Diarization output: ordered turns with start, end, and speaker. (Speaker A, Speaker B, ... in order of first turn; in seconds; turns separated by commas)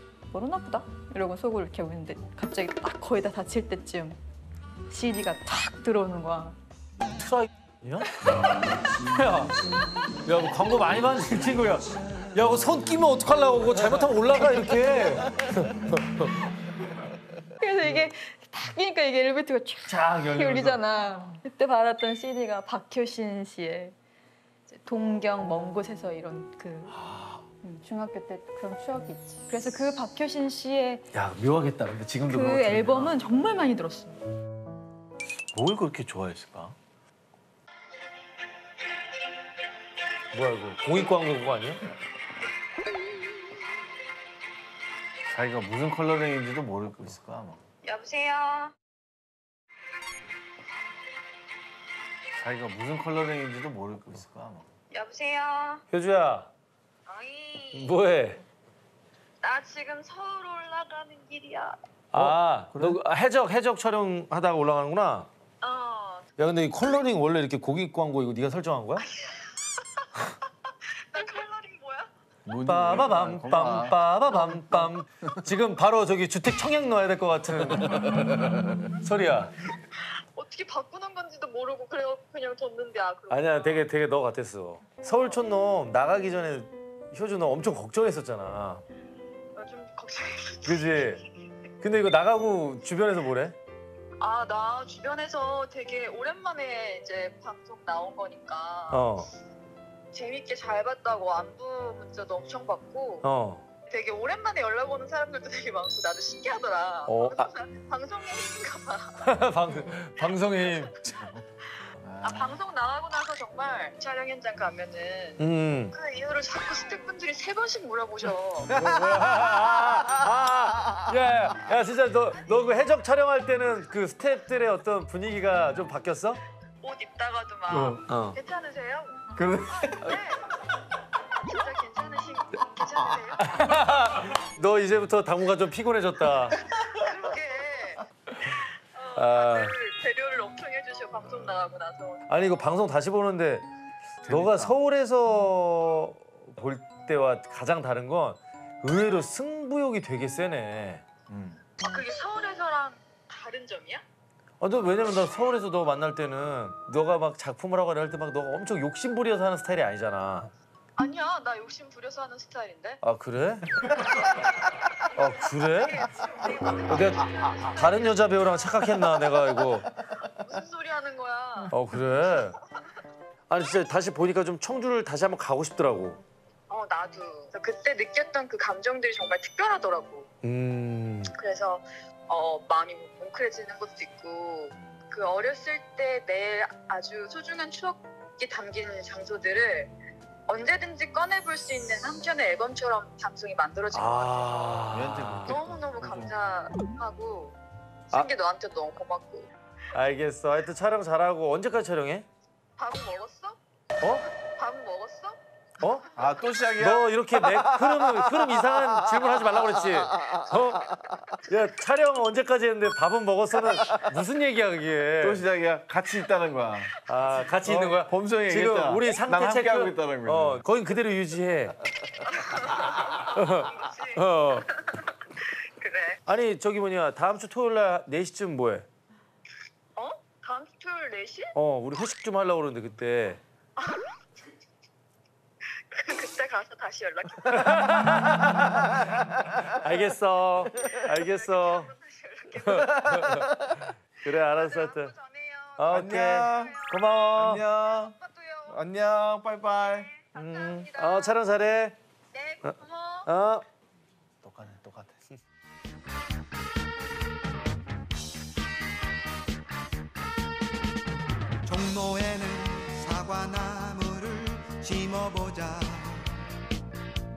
Speaker A: 0.3-4.2, Speaker A: 4.9-6.6, Speaker B: 7.2-8.2, Speaker B: 8.9-9.6, Speaker B: 10.2-16.5, Speaker A: 17.6-24.0, Speaker B: 19.9-20.8, Speaker A: 24.7-27.0, Speaker A: 27.6-31.1, Speaker B: 31.1-33.2, Speaker A: 32.3-34.2, Speaker C: 35.5-36.8, Speaker B: 40.3-41.8, Speaker C: 45.3-47.6, Speaker D: 47.8-48.7, Speaker C: 52.4-54.6, Speaker D: 54.9-55.8, Speaker B: 55.9-56.5, Speaker D: 57.1-58.0, Speaker B: 57.7-58.4, Speaker D: 59.4-61.8, Speaker B: 62.1-65.3, Speaker C: 62.2-63.0, Speaker D: 65.6-66.3, Speaker B: 66.4-69.1, Speaker D: 69.1-70.1, Speaker D: 70.9-72.1, Speaker C: 72.5-73.9, Speaker B: 72.7-79.5, Speaker D: 80.0-83.9, Speaker B: 83.3-88.8, Speaker D: 89.5-91.3, Speaker B: 90.6-91.2, Speaker B: 91.8-93.6, Speaker D: 94.2-99.1, Speaker B: 98.9-99.3, Speaker D: 100.1-103.2, Speaker B: 103.2-103.6, Speaker D: 103.9-109.3, Speaker B: 107.1-107.5, Speaker B: 109.2-111.3, Speaker D: 110.2-115.4, Speaker C: 112.0-112.3, Speaker B: 115.4-116.0, Speaker D: 115.9-118.8, Speaker B: 118.7-126.4, Speaker C: 118.8-119.4, Speaker D: 119.4-120.0, Speaker D: 126.8-129.3, Speaker B: 128.0-128.4, Speaker C: 129.4-129.8, Speaker E: 129.5-129.8, Speaker D: 129.9-130.5, Speaker D: 131.4-134.1, Speaker B: 133.4-136.7, Speaker D: 136.7-138.1, Speaker D: 138.9-142.3, Speaker B: 139.2-139.7, Speaker B: 142.3-143.7, Speaker C: 144.2-144.7, Speaker B: 144.2-151.1, Speaker C: 151.3-151.6, Speaker D: 151.8-154.0, Speaker B: 154.6-160.5, Speaker D: 161.0-163.0, Speaker B: 163.0-164.1, Speaker D: 164.0-168.3, Speaker B: 165.2-166.1, Speaker B: 166.9-169.9, Speaker D: 170.1-171.8, Speaker B: 171.7-172.6, Speaker B: 173.5-176.2, Speaker D: 176.7-180.3, Speaker B: 180.4-181.3, Speaker D: 181.3-189.9, Speaker D: 190.5-197.6, Speaker B: 193.9-195.6, Speaker C: 194.9-196.3, Speaker D: 198.1-199.5, Speaker B: 199.9-202.3, Speaker D: 202.8-203.6, Speaker D: 204.4-205.4, Speaker B: 205.8-206.1, Speaker C: 206.2-208.3, Speaker B: 206.8-215.4, Speaker C: 215.2-216.9, Speaker B: 217.1-221.8, Speaker C: 217.6-220.6, Speaker D: 222.2-226.2, Speaker B: 223.2-224.7, Speaker B: 226.3-228.9, Speaker D: 230.0-231.5, Speaker B: 231.5-233.4, Speaker D: 233.8-234.2, Speaker D: 235.9-238.4, Speaker B: 237.4-241.9, Speaker D: 239.1-239.9, Speaker D: 240.8-243.4, Speaker B: 242.6-243.5, Speaker B: 244.2-245.1, Speaker D: 244.2-248.9, Speaker B: 245.8-247.7, Speaker C: 245.9-246.7, Speaker C: 247.4-248.1, Speaker C: 248.7-250.0, Speaker D: 249.8-251.4, Speaker B: 250.3-252.0, Speaker D: 252.3-253.3, Speaker B: 252.6-253.7, Speaker C: 254.4-255.1, Speaker E: 261.6-266.4